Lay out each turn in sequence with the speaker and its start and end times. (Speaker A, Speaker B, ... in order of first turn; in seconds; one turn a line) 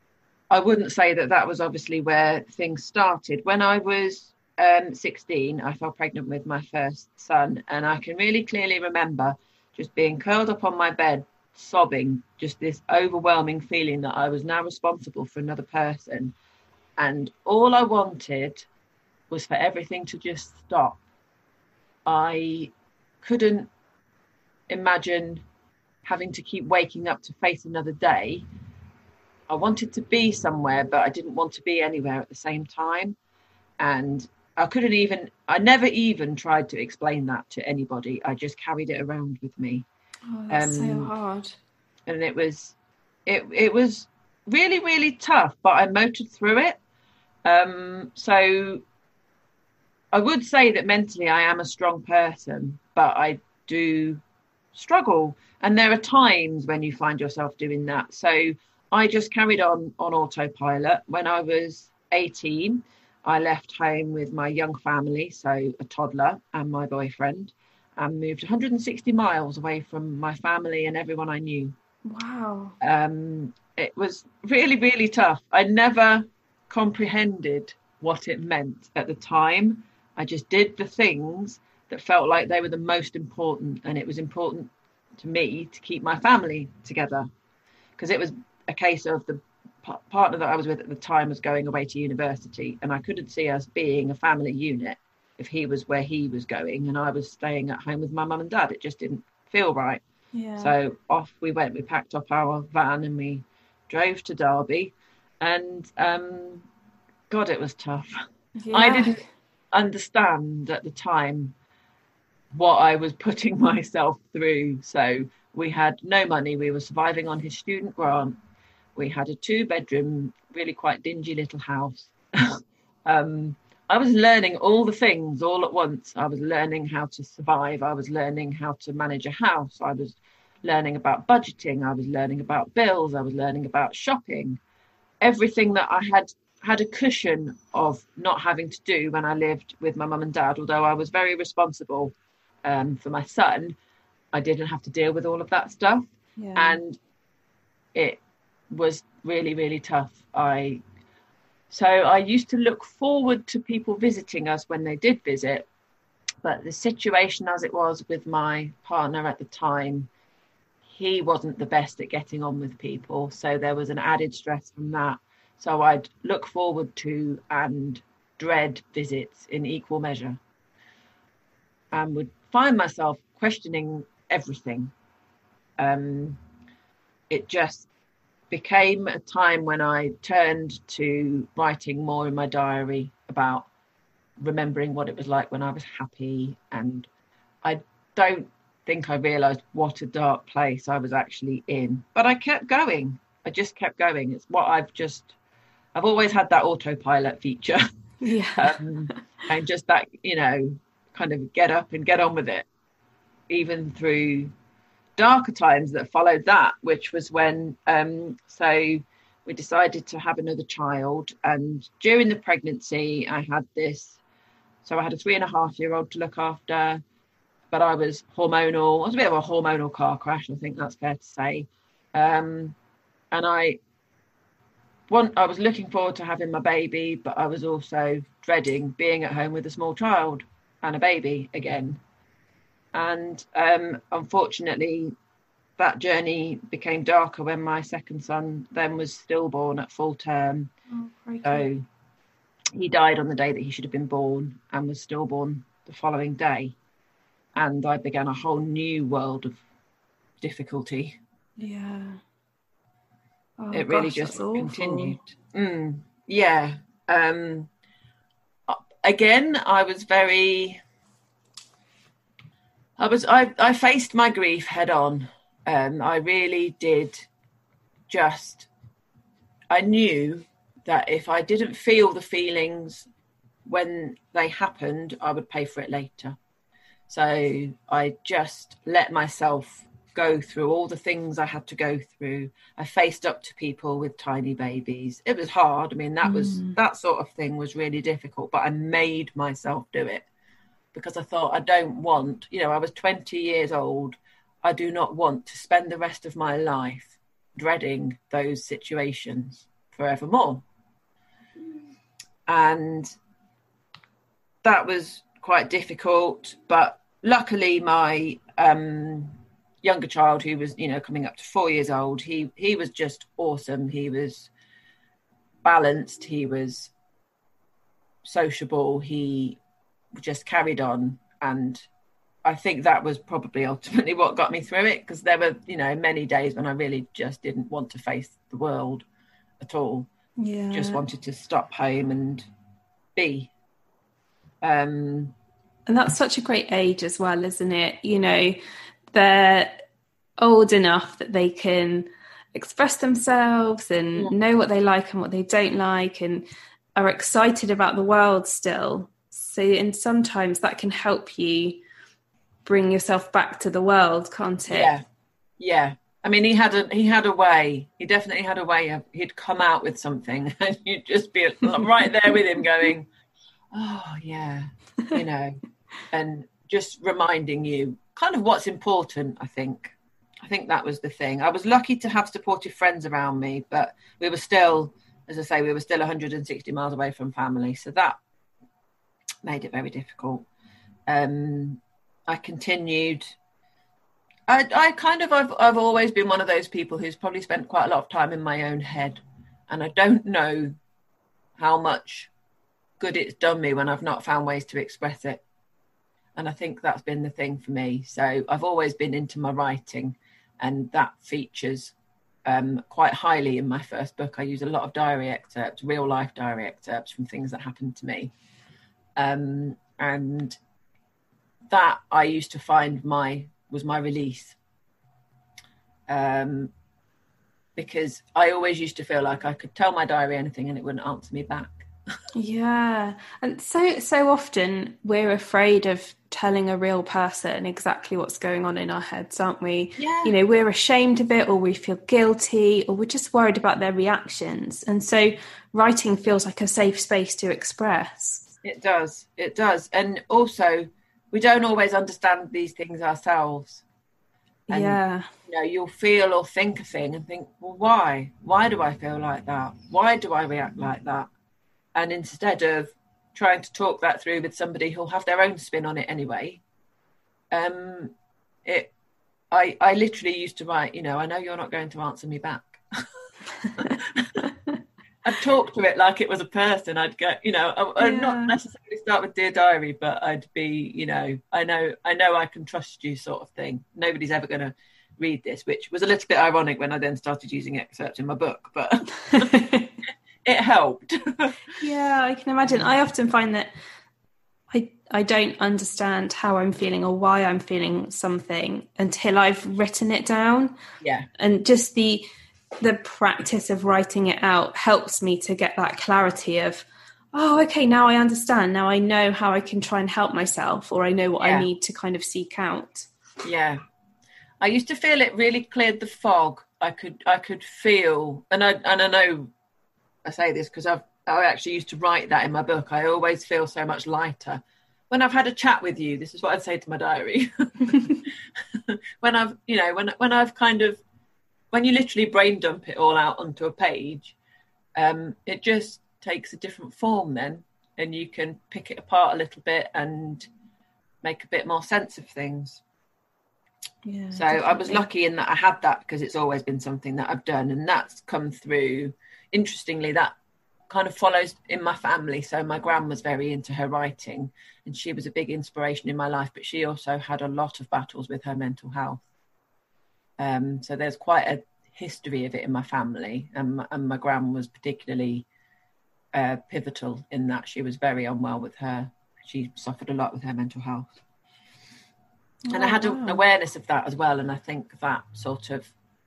Speaker A: 0.5-16.4
Speaker A: 17.0-18.7
Speaker A: 19.3-21.0
Speaker A: 22.1-22.7
Speaker A: 23.2-23.7
Speaker A: 24.7-25.4
Speaker A: 26.1-28.5
Speaker A: 29.5-33.2
Speaker A: 33.8-39.9
Speaker B: 40.3-41.6
Speaker A: 40.5-41.1
Speaker A: 42.1-42.8
Speaker A: 43.3-46.8
Speaker A: 47.5-48.8
Speaker A: 50.1-54.2
Speaker A: 54.7-71.8
Speaker B: 72.0-72.8
Speaker A: 72.8-87.3
Speaker A: 88.0-100.0
Speaker B: 100.3-100.7
Speaker A: 100.6-106.7
Speaker A: 107.3-111.5
Speaker B: 108.6-109.2
Speaker A: 112.5-118.4
Speaker A: 119.0-134.6
Speaker A: 135.2-142.1
Speaker A: 142.7-143.8
Speaker A: 144.3-147.0
Speaker B: 146.4-146.8
Speaker A: 147.9-150.8
Speaker A: 151.7-155.7
Speaker A: 156.4-160.1
Speaker A: 160.9-170.4
Speaker A: 171.9-174.9
Speaker A: 175.8-176.4
Speaker A: 177.3-177.9
Speaker A: 178.5-183.7
Speaker A: 184.4-187.1
Speaker A: 187.6-195.3
Speaker A: 195.9-197.8
Speaker B: 198.2-198.8
Speaker A: 198.6-202.7
Speaker A: 203.5-204.5
Speaker A: 205.2-214.2
Speaker A: 214.8-217.0
Speaker A: 217.7-222.8
Speaker A: 223.3-223.8
Speaker A: 225.1-232.0
Speaker A: 232.9-235.1
Speaker A: 235.8-240.7
Speaker B: 240.9-241.7
Speaker A: 241.4-241.8
Speaker A: 242.8-246.8
Speaker A: 247.6-249.6
Speaker A: 250.4-251.2
Speaker B: 251.6-252.2
Speaker B: 253.6-255.2
Speaker A: 253.7-257.7
Speaker A: 258.7-260.8
Speaker A: 263.0-267.3
Speaker A: 268.1-268.7
Speaker A: 269.7-273.1
Speaker A: 273.7-276.4
Speaker A: 277.1-290.3
Speaker B: 286.2-286.8
Speaker A: 290.9-300.6
Speaker A: 302.5-303.1
Speaker A: 304.6-314.5
Speaker A: 315.6-316.9
Speaker A: 318.2-319.6
Speaker A: 320.1-321.9
Speaker A: 322.4-329.1
Speaker A: 329.6-330.1
Speaker B: 330.4-331.0
Speaker A: 330.7-332.5
Speaker A: 333.2-333.5
Speaker A: 334.6-335.3
Speaker B: 335.9-338.6
Speaker B: 339.1-339.9
Speaker B: 340.4-346.4
Speaker B: 347.0-351.8
Speaker B: 352.6-354.9
Speaker A: 354.7-355.0
Speaker A: 355.6-363.1
Speaker A: 363.7-378.2
Speaker A: 379.4-380.5
Speaker A: 381.1-383.4
Speaker A: 384.5-390.8
Speaker A: 391.6-392.3
Speaker A: 393.0-395.4
Speaker A: 396.4-401.9
Speaker A: 402.5-408.3
Speaker A: 409.2-410.6
Speaker A: 411.7-414.6
Speaker A: 416.1-416.7
Speaker A: 417.8-421.9
Speaker B: 422.3-438.5
Speaker A: 430.0-430.4
Speaker A: 438.6-443.8
Speaker B: 444.7-445.3
Speaker A: 444.7-451.3
Speaker A: 451.9-456.6
Speaker A: 457.5-458.1
Speaker A: 458.6-458.9
Speaker A: 459.5-463.0
Speaker A: 463.8-464.5
Speaker A: 465.2-479.6
Speaker B: 468.0-468.5
Speaker B: 479.3-479.9
Speaker A: 480.4-481.6
Speaker B: 481.8-483.7
Speaker A: 482.6-482.9
Speaker B: 484.7-490.8
Speaker A: 491.0-491.3
Speaker B: 491.4-492.3
Speaker B: 492.8-503.1
Speaker A: 501.4-501.7
Speaker A: 503.4-503.8
Speaker A: 504.6-509.5
Speaker A: 510.3-518.3
Speaker A: 518.9-521.0
Speaker A: 521.7-524.4
Speaker A: 525.0-530.5
Speaker A: 531.2-532.8
Speaker B: 534.0-535.1
Speaker A: 534.3-540.3
Speaker A: 540.9-549.2
Speaker A: 550.4-555.5
Speaker A: 556.3-561.1
Speaker B: 562.7-563.4
Speaker A: 562.7-565.9